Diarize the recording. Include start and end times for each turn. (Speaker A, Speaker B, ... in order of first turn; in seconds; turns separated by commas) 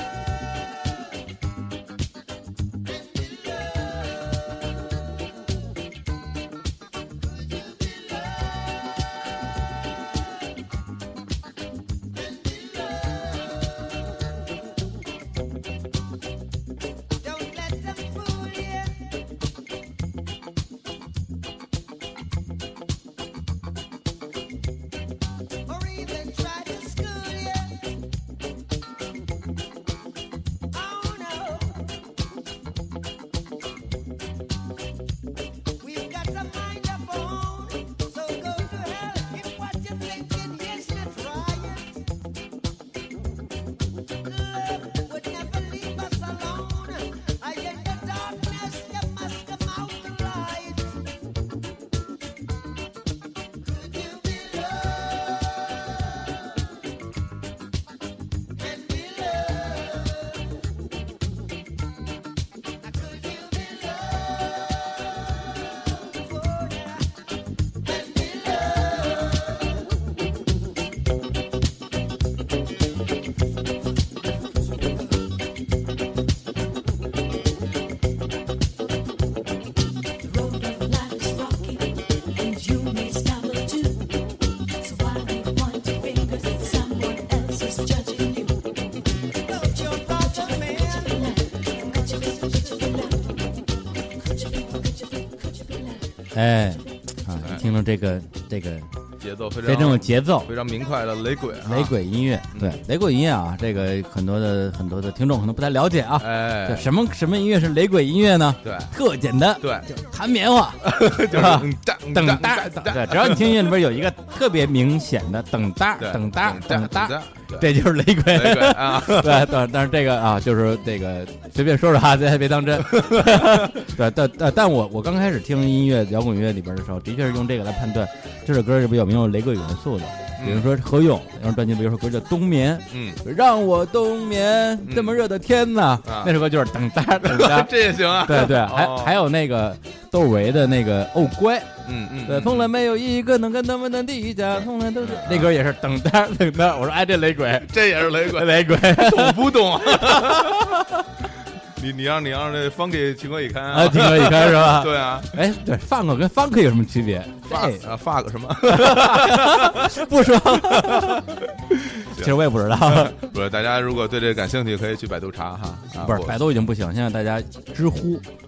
Speaker A: 3.0-4.3, Speaker A: 7.5-8.7, Speaker A: 12.1-13.8, Speaker A: 17.2-19.1, Speaker A: 25.6-27.9, Speaker A: 30.7-32.0, Speaker A: 35.8-42.0, Speaker A: 44.2-51.1, Speaker A: 53.6-56.4, Speaker A: 58.6-60.5, Speaker A: 62.8-67.2, Speaker A: 67.8-69.8, Speaker B: 80.2-96.1, Speaker A: 89.4-92.8, Speaker C: 96.3-98.9, Speaker D: 99.2-101.9, Speaker C: 99.6-100.5, Speaker C: 101.6-151.0, Speaker D: 102.5-102.8, Speaker D: 106.2-106.9, Speaker D: 108.6-108.9, Speaker D: 109.6-109.9, Speaker D: 110.8-113.7, Speaker D: 116.0-117.7, Speaker D: 118.3-119.5, Speaker D: 122.8-123.9, Speaker D: 130.4-130.7, Speaker D: 132.9-133.2, Speaker D: 134.8-135.2, Speaker D: 136.0-136.4, Speaker D: 137.2-139.2, Speaker D: 141.2-142.7, Speaker D: 144.6-145.6, Speaker D: 147.6-155.4, Speaker C: 153.7-157.8, Speaker D: 157.5-166.4, Speaker C: 158.7-161.2, Speaker C: 162.1-163.2, Speaker C: 166.0-168.2